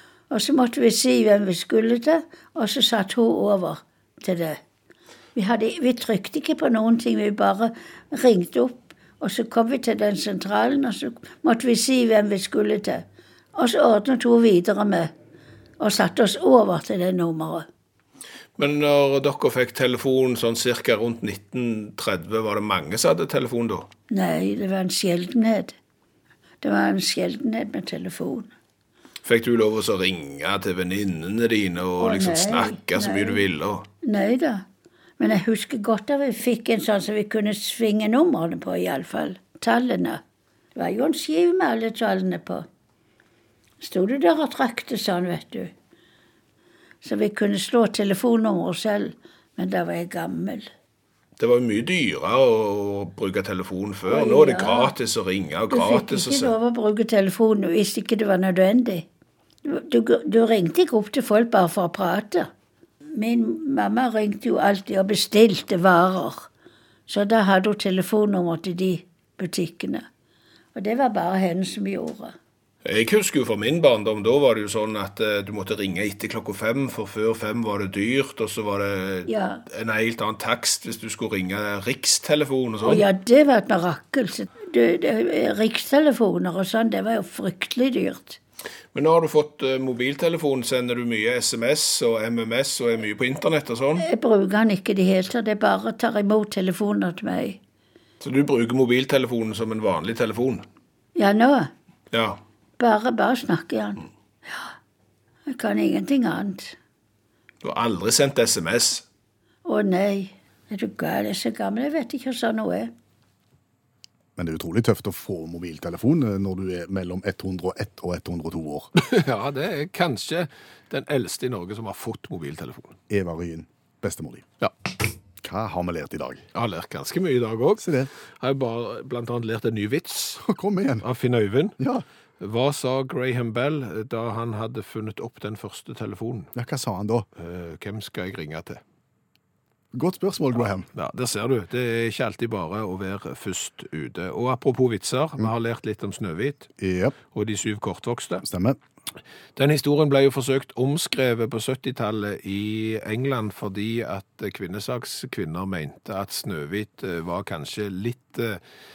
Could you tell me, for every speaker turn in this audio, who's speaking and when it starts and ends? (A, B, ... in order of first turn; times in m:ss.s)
0:00.3-0:04.6 A
0:05.3-0:15.1 A
0:15.8-0:17.6 A
0:18.6-0:23.9 B
0:24.1-0:25.7 A
0:26.6-0:28.5 A
0:29.2-0:33.8 B
0:32.0-0:33.4 A
0:34.0-0:34.6 A
0:35.2-0:40.2 A
0:40.7-0:42.6 A
0:43.8-0:45.7 A
0:47.0-0:50.7 A
0:51.4-0:56.5 B
0:54.1-0:54.9 A
0:55.7-0:59.1 A
0:59.6-1:02.5 A
1:03.1-1:06.5 A
1:07.1-1:10.0 A
1:10.7-1:12.3 A
1:12.8-1:23.0 B
1:19.3-1:19.6 A
1:22.8-1:28.4 A
1:28.9-1:34.1 B
1:34.0-1:37.6 A
1:38.2-1:40.6 B
1:41.2-1:41.7 A
1:42.1-1:42.4 B
1:42.8-1:44.7 A
1:45.4-1:46.8 A
1:47.6-1:49.0 B
1:49.6-1:52.9 A
1:54.4-1:58.9 C
1:58.9-2:02.9 B
2:03.1-2:04.5 C
2:05.4-2:06.4 C
2:06.5-2:10.4 B
2:07.8-2:08.1 C
2:10.4-2:11.0 C
2:11.0-2:11.8 B
2:11.8-2:12.0 C
2:12.4-2:16.5 B
2:16.5-2:17.3 C
2:17.4-2:18.8 B
2:19.9-2:20.8 C
2:20.9-2:26.7 B
2:26.8-2:27.2 C
2:27.3-2:28.4 B
2:28.4-2:28.8 C
2:29.6-2:38.6 B